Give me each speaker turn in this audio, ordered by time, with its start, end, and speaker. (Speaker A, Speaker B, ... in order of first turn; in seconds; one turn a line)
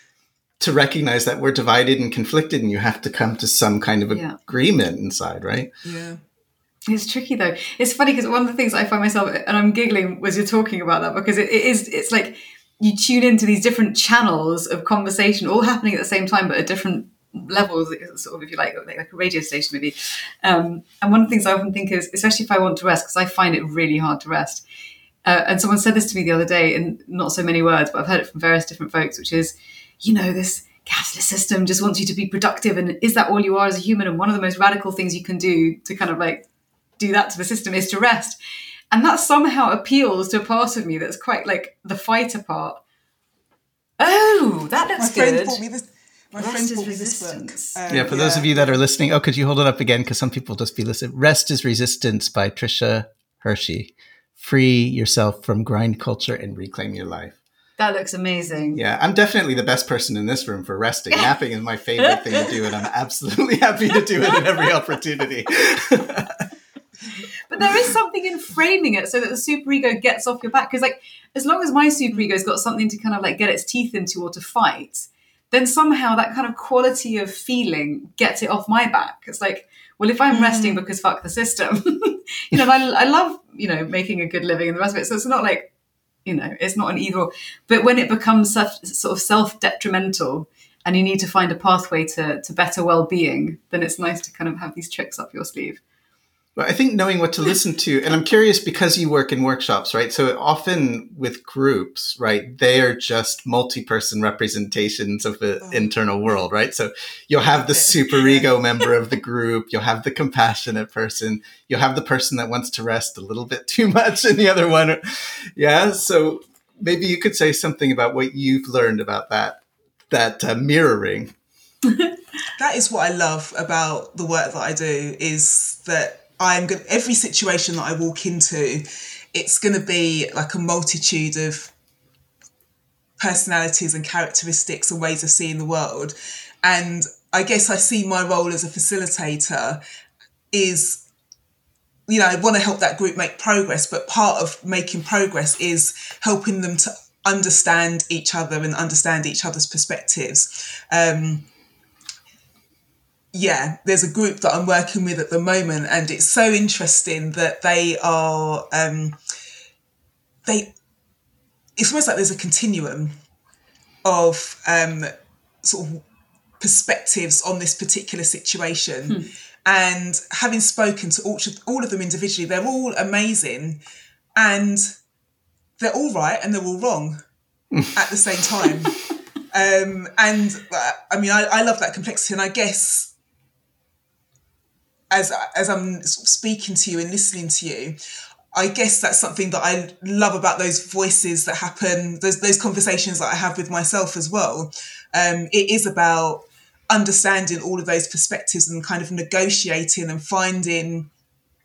Speaker A: 0.6-5.7
Speaker B: 4.1-4.4
Speaker C: 5.8-6.2
Speaker B: 6.9-24.6
Speaker B: 25.2-36.4
Speaker B: 37.0-38.4
Speaker B: 38.9-42.8
Speaker B: 44.0-45.6
Speaker C: 44.9-48.8
Speaker B: 46.4-47.8
Speaker A: 47.9-57.4
Speaker B: 57.8-58.8
Speaker A: 58.7-66.4
Speaker B: 62.0-62.6
Speaker B: 67.5-85.7
Speaker C: 80.3-80.8
Speaker B: 86.2-95.8
Speaker A: 96.5-121.3
Speaker C: 105.6-105.9
Speaker C: 107.5-108.5
Speaker C: 122.5-131.7
Speaker C: 133.2-139.8
Speaker C: 140.5-141.0
Speaker C: 142.1-151.5
Speaker C: 153.3-159.2
Speaker C: 160.4-160.7
Speaker C: 161.8-163.2
Speaker C: 164.0-165.1
Speaker C: 165.6-166.0
Speaker C: 166.6-173.8
Speaker C: 174.3-174.9
Speaker C: 175.8-177.2
Speaker C: 177.9-179.0
Speaker C: 179.5-183.1
Speaker C: 185.1-188.0
Speaker C: 188.5-201.1